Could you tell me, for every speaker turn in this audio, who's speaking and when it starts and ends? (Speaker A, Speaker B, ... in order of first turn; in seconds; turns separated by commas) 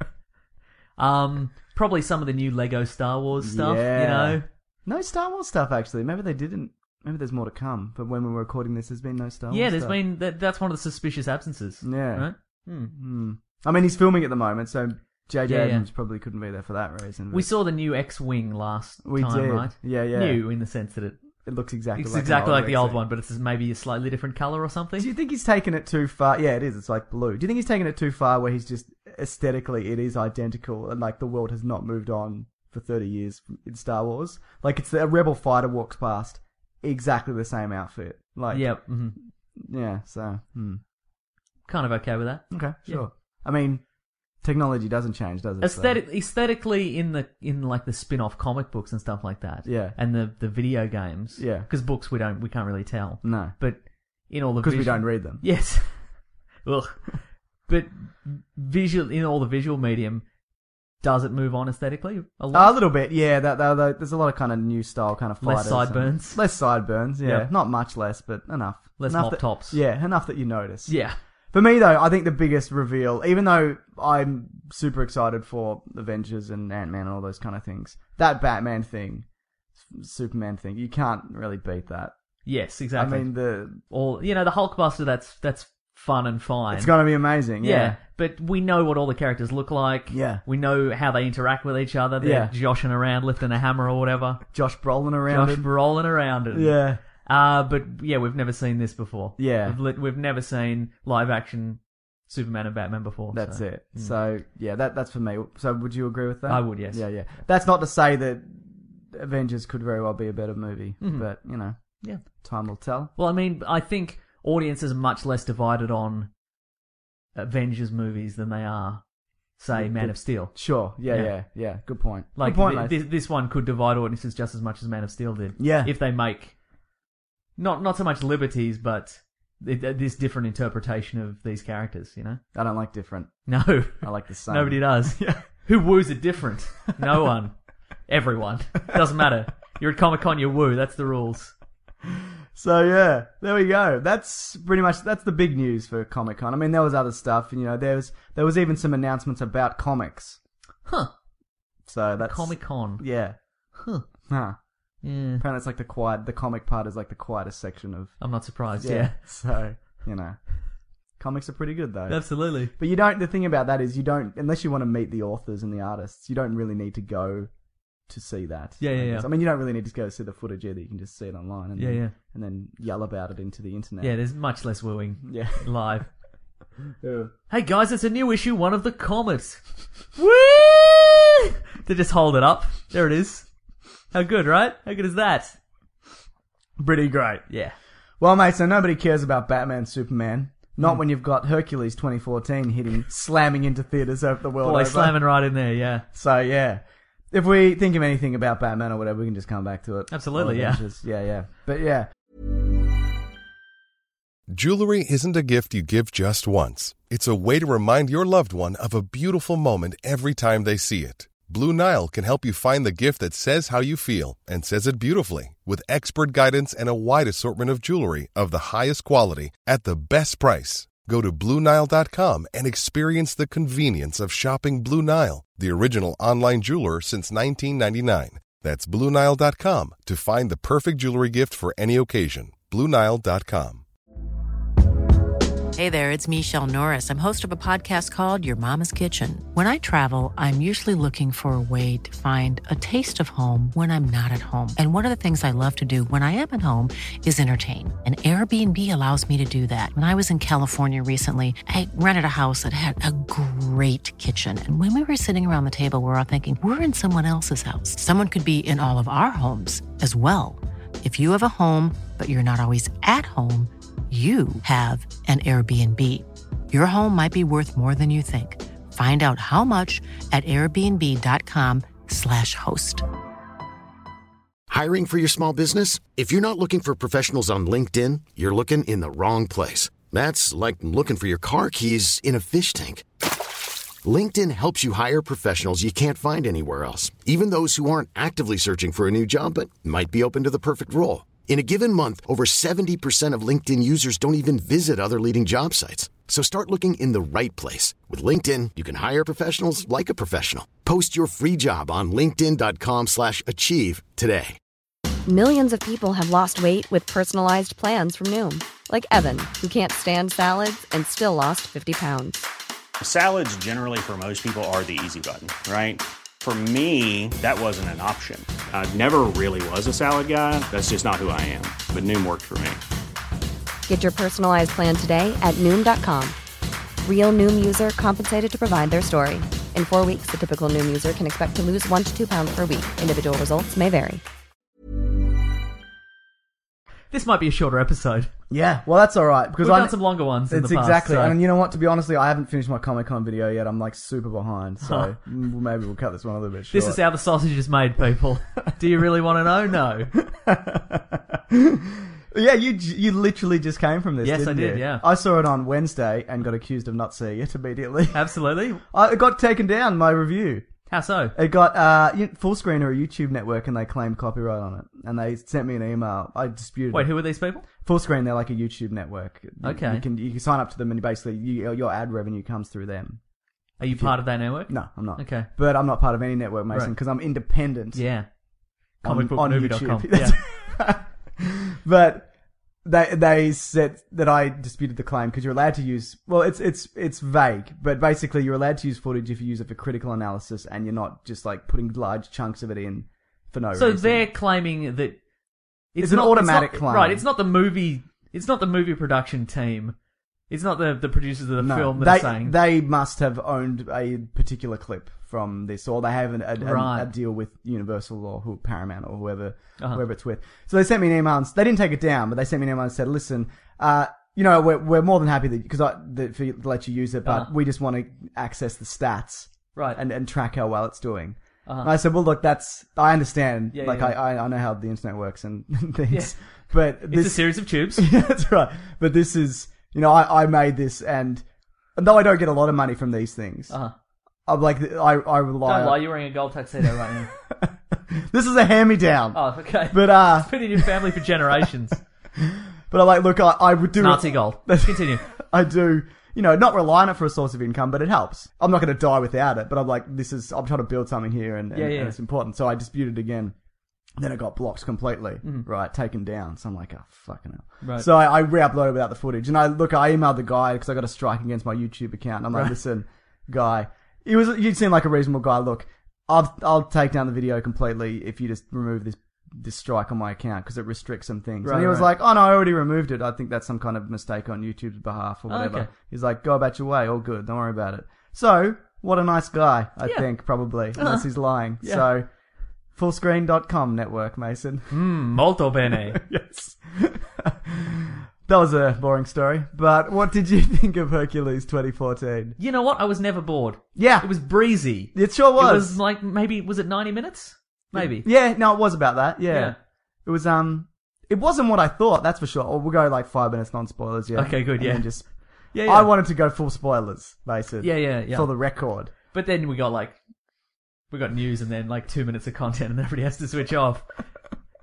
Speaker A: 1.0-4.5, Speaker B: 3.4-10.0, Speaker A: 9.5-12.9, Speaker B: 11.8-12.3, Speaker B: 12.8-17.5, Speaker A: 15.5-15.9, Speaker A: 17.3-21.2, Speaker B: 19.0-20.4, Speaker B: 21.4-23.0, Speaker A: 21.9-25.1, Speaker B: 25.0-40.8, Speaker A: 38.5-39.2, Speaker A: 41.7-43.0, Speaker B: 42.5-43.9, Speaker B: 44.4-46.0, Speaker A: 45.6-60.3, Speaker B: 49.6-50.0, Speaker B: 51.4-51.7, Speaker B: 53.2-53.6, Speaker B: 54.6-55.4, Speaker A: 61.0-62.8, Speaker B: 62.5-70.9, Speaker A: 65.4-66.4, Speaker A: 67.2-67.5, Speaker A: 69.0-69.8, Speaker A: 70.9-71.2, Speaker B: 71.5-79.3, Speaker B: 79.8-82.1, Speaker A: 82.5-86.9, Speaker B: 83.0-83.8, Speaker B: 86.7-88.0, Speaker A: 87.6-94.5, Speaker B: 90.1-90.4, Speaker B: 92.2-92.5, Speaker B: 94.5-95.7, Speaker A: 95.3-104.1, Speaker B: 96.5-97.0, Speaker B: 99.4-99.8, Speaker B: 103.3-113.1, Speaker A: 106.5-107.1, Speaker A: 111.0-112.2, Speaker A: 113.2-116.3, Speaker A: 117.3-121.4, Speaker B: 119.7-122.9, Speaker A: 122.4-126.5, Speaker B: 125.6-125.9, Speaker A: 127.6-132.4, Speaker B: 132.5-135.4, Speaker A: 133.5-137.6, Speaker A: 138.1-141.5, Speaker B: 142.5-150.4, Speaker A: 150.9-151.1, Speaker B: 151.8-153.4, Speaker A: 152.2-153.0, Speaker A: 153.7-154.1, Speaker B: 154.3-154.6, Speaker A: 155.0-155.4, Speaker B: 155.3-158.2, Speaker A: 158.2-159.2, Speaker B: 158.8-160.7, Speaker B: 161.2-167.5, Speaker A: 162.1-162.7, Speaker B: 168.1-174.2, Speaker A: 168.8-169.3, Speaker A: 171.8-172.2, Speaker A: 174.0-176.1, Speaker B: 175.2-175.7, Speaker B: 177.0-177.3, Speaker A: 177.5-179.6, Speaker A: 180.2-183.5, Speaker A: 184.1-185.6, Speaker B: 186.8-187.5, Speaker A: 187.5-187.8, Speaker B: 188.2-195.2, Speaker A: 194.6-196.1, Speaker B: 196.1-202.1, Speaker A: 200.1-200.8, Speaker C: 204.5-233.8, Speaker D: 235.8-273.0, Speaker E: 274.7-283.1, Speaker E: 284.0-304.6, Speaker F: 305.3-312.5, Speaker G: 313.0-322.8, Speaker F: 323.9-326.4, Speaker F: 327.1-334.2, Speaker A: 337.1-338.3, Speaker B: 338.5-347.0, Speaker A: 339.6-341.4, Speaker A: 344.8-345.1, Speaker A: 346.7-350.1, Speaker B: 350.2-360.7, Speaker A: 354.2-355.0, Speaker A: 358.1-358.8, Speaker A: 360.9-361.4, Speaker B: 361.4-367.1, Speaker A: 366.9-367.6, Speaker B: 367.8-373.2, Speaker A: 369.6-370.1, Speaker A: 373.8-375.5, Speaker B: 373.9-378.1, Speaker A: 377.9-378.3, Speaker A: 379.0-380.4, Speaker B: 379.0-382.3, Speaker B: 382.8-394.3, Speaker A: 393.8-395.2, Speaker A: 395.9-400.0, Speaker B: 396.0-397.2, Speaker A: 400.5-402.6, Speaker B: 401.6-433.8, Speaker A: 406.6-407.1, Speaker A: 417.2-417.5, Speaker A: 421.7-421.9, Speaker A: 423.7-424.2, Speaker A: 427.1-428.1, Speaker B: 434.5-436.1, Speaker A: 435.6-437.3, Speaker B: 437.5-441.2, Speaker A: 439.3-442.0, Speaker B: 442.4-453.5, Speaker A: 444.0-445.2, Speaker A: 451.7-452.2, Speaker B: 454.2-482.3, Speaker A: 457.8-458.1, Speaker A: 471.6-472.1, Speaker A: 475.5-475.9, Speaker A: 480.9-481.3, Speaker B: 482.9-484.9, Speaker A: 484.9-486.2, Speaker B: 485.9-492.6, Speaker A: 492.6-498.3, Speaker B: 494.0-494.3, Speaker B: 495.1-496.0, Speaker B: 497.9-505.3, Speaker A: 499.5-499.8, Speaker A: 504.4-506.1, Speaker B: 505.8-509.1, Speaker A: 507.8-508.5, Speaker A: 509.3-510.2, Speaker A: 511.1-514.1